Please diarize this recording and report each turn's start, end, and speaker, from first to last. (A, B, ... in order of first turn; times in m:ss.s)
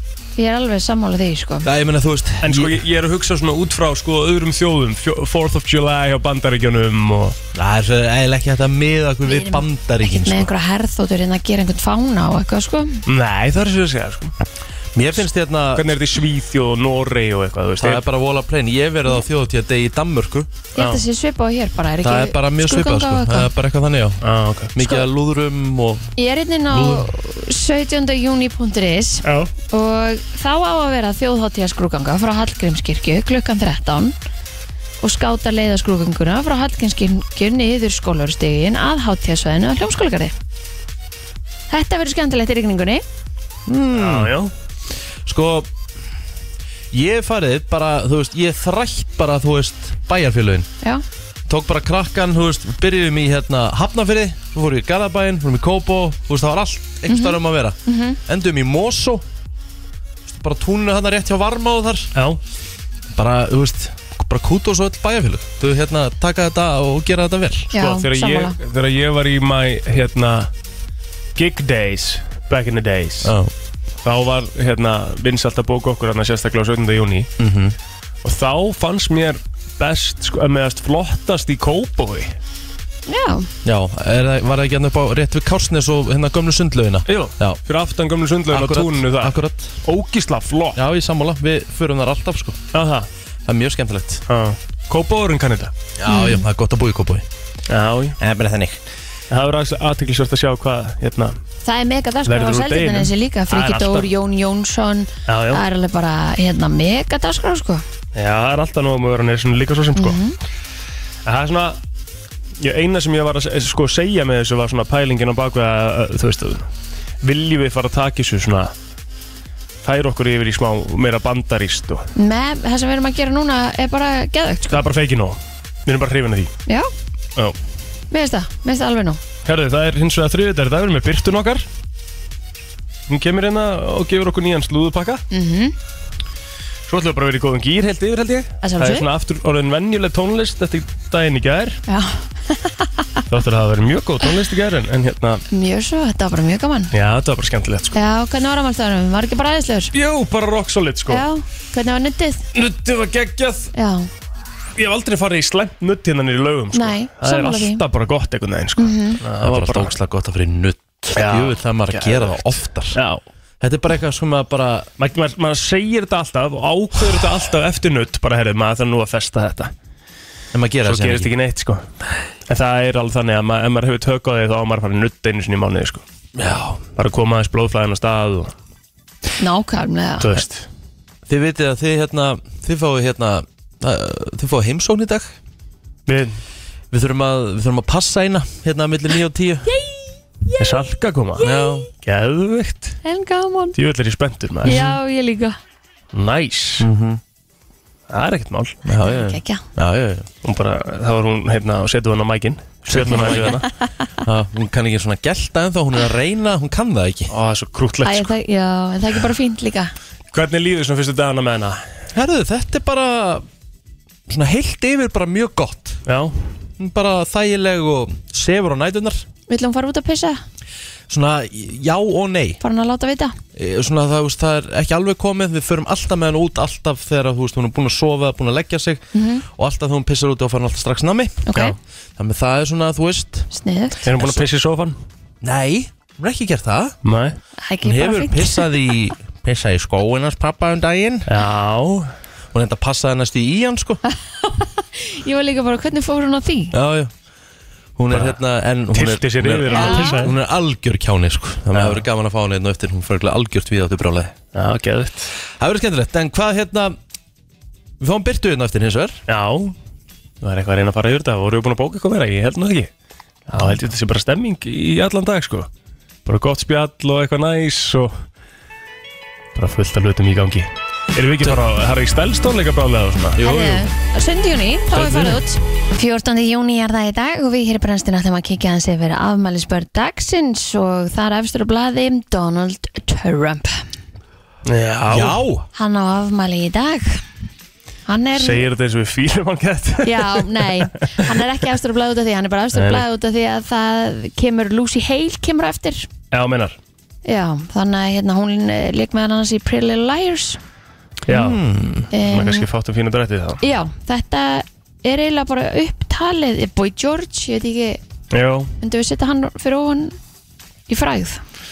0:00.4-0:01.6 A
0:01.6-0:02.8 B
0:02.4-0:07.4 C
0:07.5-0:10.5 B
0:09.2-0:13.0 A
0:13.0-0:14.3 C
0:14.9-0:15.8 B
0:15.7-0:18.0 C
0:17.8-0:20.6 B
0:20.8-0:23.5 A
0:20.8-0:21.0 C
0:22.0-0:26.1 B
0:24.2-0:24.7 C
0:26.2-0:34.1 A
0:26.7-0:27.1 B
0:29.2-0:29.5 C
0:35.0-0:40.3 A
0:41.7-0:43.0 A
0:43.7-0:44.4 B
0:43.9-0:44.5 C
0:45.2-0:45.7 B
0:46.9-0:50.7 B
0:51.5-0:59.2 B
0:57.1-0:58.2 A
1:00.3-1:02.1 B
1:02.1-1:02.4 C
1:03.1-1:07.7 B
1:07.7-1:08.6 A
1:07.8-1:10.5 C
1:11.4-1:13.3 C
1:13.2-1:13.5 B
1:14.0-1:17.3 C
1:17.4-1:17.7 B
1:18.2-1:22.3 C
1:23.1-1:23.5 A
1:23.6-1:27.6 B
1:27.1-1:30.8 C
1:28.5-1:29.7 B
1:30.7-1:32.6 B
1:32.7-1:33.1 C
1:33.4-1:34.2 B
1:34.3-1:35.7 C
1:36.0-1:37.2 B
1:36.1-1:36.4 A
1:37.7-1:38.2 C
1:38.2-1:38.8 B
1:39.3-1:41.4 C
1:41.6-1:47.8 A
1:42.2-1:44.1 C
1:45.3-1:45.6 C
1:48.1-1:50.2 C
1:50.0-1:50.4 A
1:51.2-1:51.8 C
1:52.6-1:56.7 C
1:57.2-1:58.7 C
1:59.8-2:02.0 C
2:02.2-2:04.8 A
2:04.7-2:06.5 C
2:08.1-2:09.2 A
2:09.4-2:11.7 C
2:13.1-2:15.2 C
2:15.3-2:15.7 A
2:16.9-2:21.8 C
2:18.6-2:19.1 A
2:21.9-2:23.2 A
2:23.3-2:25.4 C
2:25.5-2:26.9 A
2:26.9-2:28.0 C
2:27.9-2:29.9 A
2:29.9-2:31.3 C
2:31.1-2:32.4 A
2:32.5-2:33.7 C
2:33.7-2:34.1 A
2:34.8-2:39.9 C
2:36.7-2:37.8 A
2:38.8-2:39.2 A
2:39.4-2:43.0 B
2:41.1-2:43.2 C
2:43.6-2:44.9 B
2:45.0-2:49.7 C
2:50.5-2:51.3 B
2:50.8-2:51.8 C
2:52.5-2:56.0 C
2:56.3-2:56.8 B
2:57.0-2:58.5 C
2:59.4-3:00.4 A
3:00.2-3:00.7 C
3:01.3-3:05.3 B
3:06.1-3:06.4 C
3:06.9-3:09.7 B
3:10.4-3:10.7 A
3:10.6-3:11.5 C
3:11.4-3:11.8 A
3:11.4-3:11.9 B
3:12.0-3:13.0 C
3:13.0-3:13.8 A
3:13.7-3:14.8 C
3:14.6-3:14.9 B
3:14.6-3:15.6 A
3:16.1-3:16.9 C
3:16.8-3:17.2 B
3:18.1-3:18.8 C
3:18.8-3:20.3 B
3:19.0-3:19.6 A
3:20.4-3:23.7 C
3:22.9-3:23.6 B
3:24.2-3:27.3 B
3:27.3-3:28.3 C
3:28.0-3:29.9 A
3:30.3-3:31.8 C
3:32.1-3:33.4 B
3:34.3-3:36.0 B
3:36.0-3:36.3 C
3:36.8-3:39.2 B
3:39.5-3:40.4 A
3:41.1-3:42.6 B
3:42.6-3:43.4 A
3:43.6-3:51.4 B
3:49.1-3:49.4 A
3:51.4-3:51.7 A
3:52.2-3:53.5 B
3:53.5-3:54.1 A
3:54.0-3:55.0 C
3:55.4-3:56.9 B
3:57.0-3:57.4 C
3:57.6-3:58.9 A
3:57.8-4:01.3 B
4:01.3-4:02.1 C
4:02.5-4:04.0 B
4:04.4-4:06.7 A
4:06.7-4:07.1 B
4:08.0-4:14.3 B
4:08.1-4:08.4 C
4:08.9-4:10.3 C
4:09.7-4:10.3 A
4:11.7-4:12.0 C
4:14.5-4:15.3 C
4:15.6-4:17.0 B
4:18.0-4:19.2 B
4:19.3-4:19.8 C
4:20.4-4:22.9 C
4:23.5-4:25.7 C
4:26.2-4:28.2 C
4:29.6-4:33.4 C
4:33.4-4:33.8 B
4:33.4-4:43.8 A
4:34.9-4:35.4 C
4:44.6-4:45.4 C
4:45.1-4:45.7 B
4:45.7-4:47.2 A
4:48.1-4:48.6 A
4:48.3-4:51.3 C
4:50.0-4:56.1 A
4:52.7-4:53.0 C
4:56.3-4:56.8 C
4:57.2-5:00.6 A
5:01.3-5:01.6 C
5:01.3-5:02.1 B
5:02.1-5:02.6 A
5:02.2-5:03.6 C
5:03.6-5:08.0 A
5:08.3-5:08.7 C
5:08.8-5:10.2 A
5:10.9-5:11.4 A